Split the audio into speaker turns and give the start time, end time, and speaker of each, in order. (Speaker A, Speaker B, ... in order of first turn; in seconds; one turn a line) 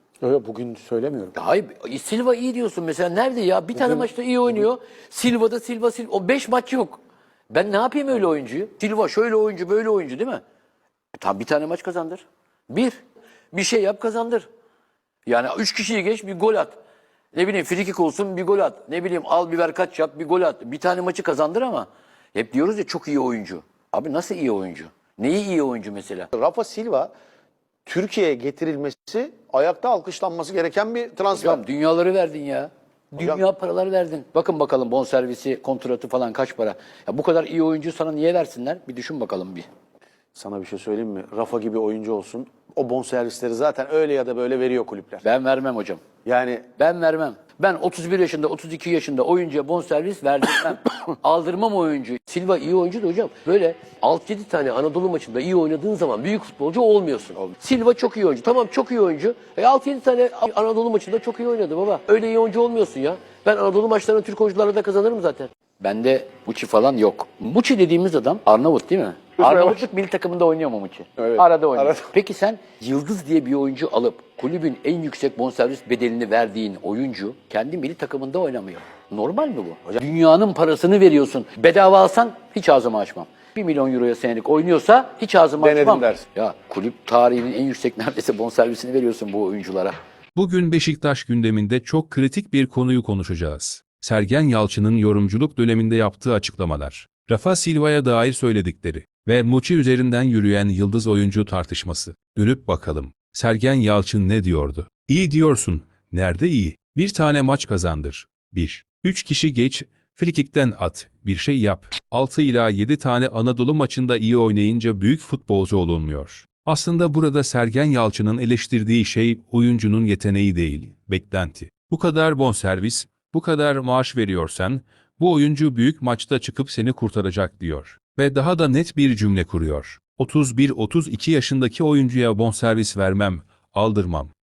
Speaker A: 0.2-1.4
Speaker B: 1.4-10.4
Speaker A: 3.8-4.7
Speaker B: 11.2-13.0
Speaker B: 13.5-14.5
Speaker B: 15.3-16.8
Speaker B: 17.3-26.3
Speaker A: 26.3-27.1
Speaker A: 27.9-31.6
Speaker B: 31.3-39.7
Speaker A: 33.2-33.4
Speaker A: 40.4-45.2
Speaker B: 45.2-46.0
Speaker A: 46.2-46.7
Speaker B: 46.8-90.0
Speaker A: 69.4-69.8
Speaker A: 71.4-72.1
Speaker A: 85.6-86.2
Speaker C: 90.3-134.3